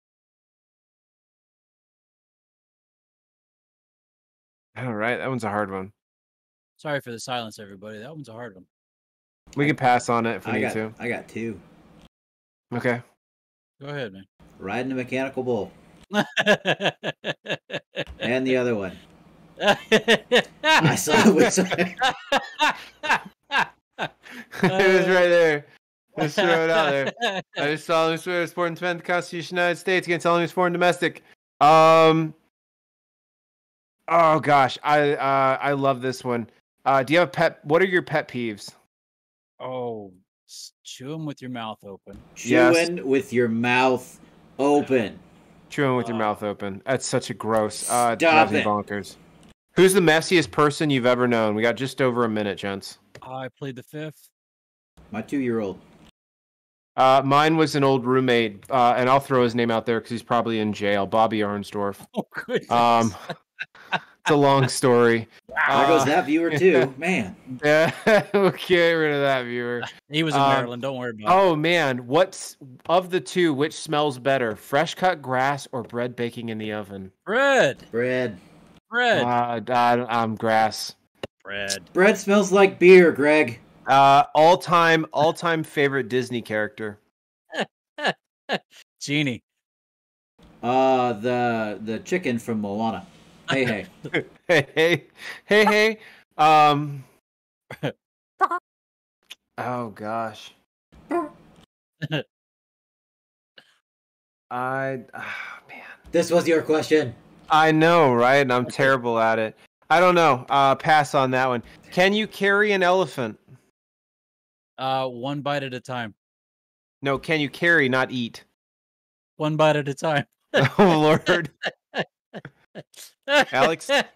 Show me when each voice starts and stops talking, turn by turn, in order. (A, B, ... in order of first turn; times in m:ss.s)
0:04.8-0:05.9 A
0:06.8-0:08.7 B
0:09.6-0:10.9 A
0:10.4-0:11.6 C
0:12.7-0:13.0 A
0:13.8-0:14.3 B
0:14.6-0:15.8 C
0:16.1-0:18.2 B
0:18.2-0:19.0 C
0:19.6-0:24.1 B
0:20.8-0:22.0 C
0:24.6-0:32.4 A
0:24.7-0:25.3 B
0:26.2-0:27.7 B
0:34.1-0:38.8 A
0:39.6-0:42.3 B
0:42.4-0:45.2 C
0:42.4-0:42.9 A
0:45.7-0:49.2 A
0:46.0-0:46.4 B
0:47.8-0:48.7 C
0:49.8-0:53.0 A
0:53.2-0:54.3 B
0:55.1-0:55.8 C
0:57.0-1:02.0 A
1:02.1-1:03.3 B
1:02.7-1:03.2 A
1:04.2-1:06.9 A
1:05.6-1:06.0 B
1:05.7-1:07.4 C
1:07.6-1:10.7 A
1:09.8-1:11.4 B
1:11.3-1:17.1 A
1:17.3-1:17.9 B
1:17.9-1:18.4 C
1:18.9-1:19.3 B
1:19.1-1:21.0 A
1:21.4-1:21.9 B
1:21.9-1:23.6 C
1:23.9-1:27.0 A
1:27.5-1:29.4 B
1:30.6-1:33.9 C
1:34.1-1:37.1 A
1:37.7-1:38.6 B
1:39.6-1:40.6 A
1:44.5-1:46.0 A
1:46.1-1:47.2 C
1:47.5-1:53.5 A
1:54.8-1:56.2 B
1:57.0-1:58.4 A
1:59.4-2:01.4 B
2:00.6-2:01.5 A
2:02.8-2:04.0 B
2:03.5-2:03.9 A